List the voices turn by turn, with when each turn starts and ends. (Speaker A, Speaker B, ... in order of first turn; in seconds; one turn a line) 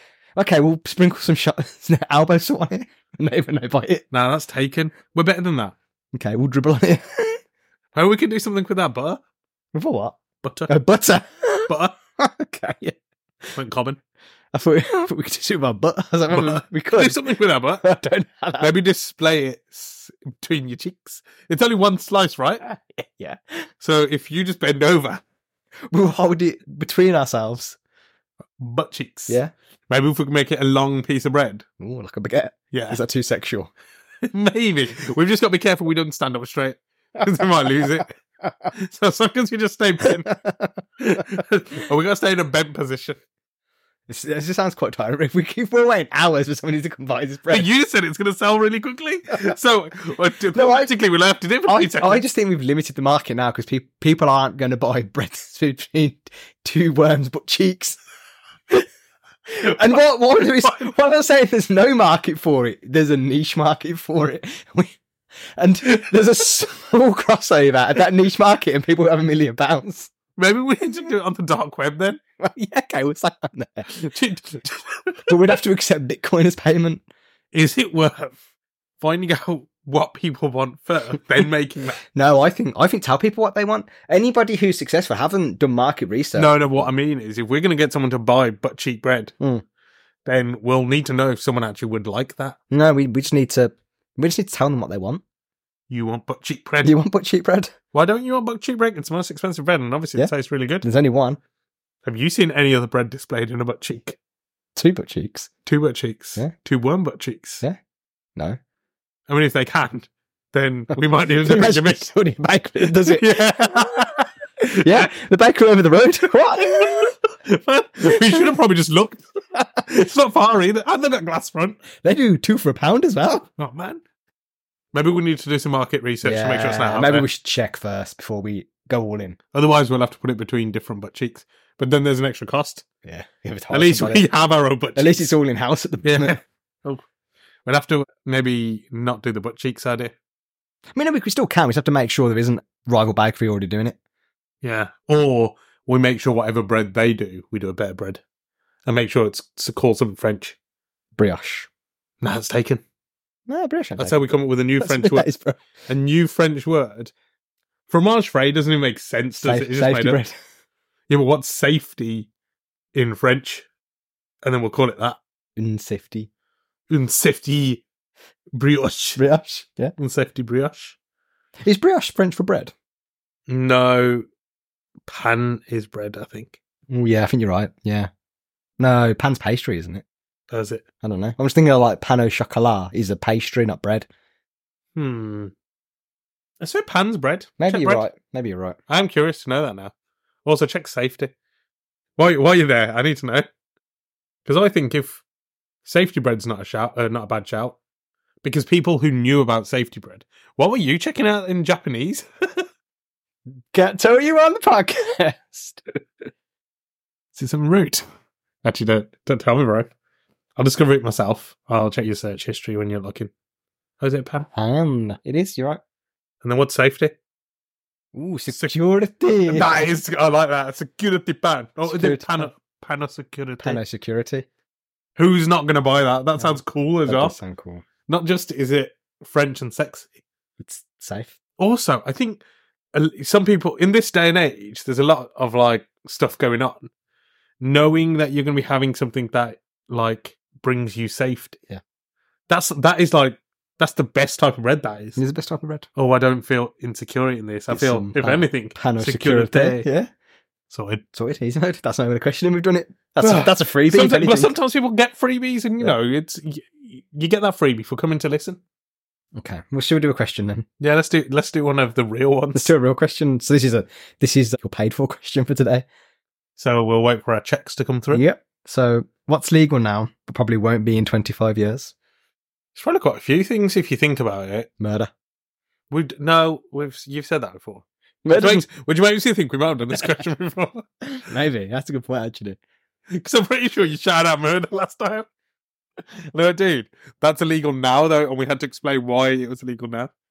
Speaker A: 0.3-4.0
Speaker B: 4.1-5.8
Speaker A: 6.1-7.4
Speaker B: 7.9-9.2
Speaker A: 9.7-12.9
Speaker B: 10.4-10.7
Speaker B: 11.7-12.0
Speaker B: 13.5-14.0
Speaker A: 14.5-17.3
Speaker B: 16.3-17.9
Speaker A: 17.8-18.7
Speaker B: 18.6-22.6
Speaker A: 22.6-23.6
Speaker B: 23.8-25.2
Speaker A: 25.9-27.8
Speaker B: 28.6-29.4
Speaker B: 29.9-31.6
Speaker A: 31.8-33.7
Speaker B: 32.7-33.0
Speaker B: 34.3-38.1
Speaker B: 38.7-40.3
Speaker A: 40.0-41.2
Speaker B: 41.0-43.2
Speaker A: 44.1-47.7
Speaker B: 47.5-52.2
Speaker A: 50.5-50.9
Speaker A: 51.7-58.0
Speaker A: 59.5-65.0
Speaker A: 65.6-70.1
Speaker B: 70.3-72.2
Speaker A: 72.4-73.9
Speaker B: 73.9-75.3
Speaker A: 75.3-77.0
Speaker B: 77.5-78.3
Speaker B: 79.0-82.0
Speaker A: 82.1-86.9
Speaker B: 86.3-89.3
Speaker B: 90.2-92.5
Speaker A: 92.7-95.2
Speaker B: 95.9-96.9
Speaker A: 96.8-97.7
Speaker B: 97.9-100.8
Speaker A: 100.2-101.4
Speaker B: 102.0-104.2
Speaker A: 104.8-105.5
Speaker B: 105.7-107.6
Speaker B: 109.3-112.0
Speaker A: 111.4-117.1
Speaker B: 112.9-115.1
Speaker B: 116.6-119.3
Speaker A: 118.0-118.5
Speaker B: 119.8-121.8
Speaker A: 122.0-123.5
Speaker B: 123.6-124.0
Speaker B: 124.9-127.3
Speaker A: 126.2-129.4
Speaker B: 129.5-132.8
Speaker A: 133.0-134.3
Speaker B: 133.7-135.2
Speaker A: 134.9-136.4
Speaker B: 136.0-137.0
Speaker B: 137.7-140.1
Speaker A: 140.9-143.9
Speaker B: 144.6-148.2
Speaker B: 148.8-150.6
Speaker A: 151.2-151.7
Speaker B: 152.2-152.8
Speaker A: 153.5-154.2
Speaker B: 154.0-155.3
Speaker A: 154.8-155.6
Speaker B: 155.9-157.1
Speaker B: 157.9-160.2
Speaker A: 159.4-160.3
Speaker B: 161.1-162.3
Speaker B: 162.9-163.7
Speaker B: 164.4-165.2
Speaker A: 165.6-166.3
Speaker B: 166.9-167.8
Speaker B: 168.5-169.2
Speaker A: 169.2-169.9
Speaker B: 170.0-170.9
Speaker A: 171.6-172.7
Speaker B: 173.5-174.2
Speaker B: 175.1-176.6
Speaker A: 176.9-178.1
Speaker A: 178.8-180.0
Speaker B: 180.5-180.8
Speaker A: 181.0-184.1
Speaker B: 184.9-185.5
Speaker B: 186.6-188.0
Speaker A: 187.6-188.8
Speaker B: 188.9-189.9
Speaker B: 190.4-191.3
Speaker B: 192.2-193.5
Speaker B: 194.4-195.2
Speaker B: 195.8-197.8
Speaker B: 198.4-202.7
Speaker A: 203.7-206.0
Speaker B: 207.3-208.0
Speaker B: 208.6-209.9
Speaker B: 210.6-213.3
Speaker B: 214.0-214.5
Speaker A: 214.5-215.8
Speaker B: 216.4-217.2
Speaker A: 218.1-219.8
Speaker B: 219.4-223.8
Speaker A: 221.8-222.5
Speaker A: 223.6-224.4
Speaker B: 225.2-227.4
Speaker A: 226.4-227.8
Speaker B: 228.1-230.1
Speaker A: 230.6-231.3
Speaker B: 231.6-232.4
Speaker B: 232.9-236.9
Speaker B: 237.6-241.6
Speaker B: 242.5-245.2
Speaker A: 245.2-245.8
Speaker B: 245.9-249.9
Speaker A: 247.7-250.1
Speaker B: 250.7-251.0
Speaker A: 251.1-254.5
Speaker B: 253.2-258.6
Speaker A: 259.3-260.6
Speaker B: 260.8-262.7
Speaker A: 262.5-265.9
Speaker B: 266.6-268.2
Speaker A: 268.1-271.9
Speaker B: 272.8-274.7
Speaker A: 274.8-275.1
Speaker B: 275.9-280.8
Speaker A: 278.2-278.6
Speaker A: 281.1-282.6
Speaker B: 283.1-285.3
Speaker B: 286.3-290.1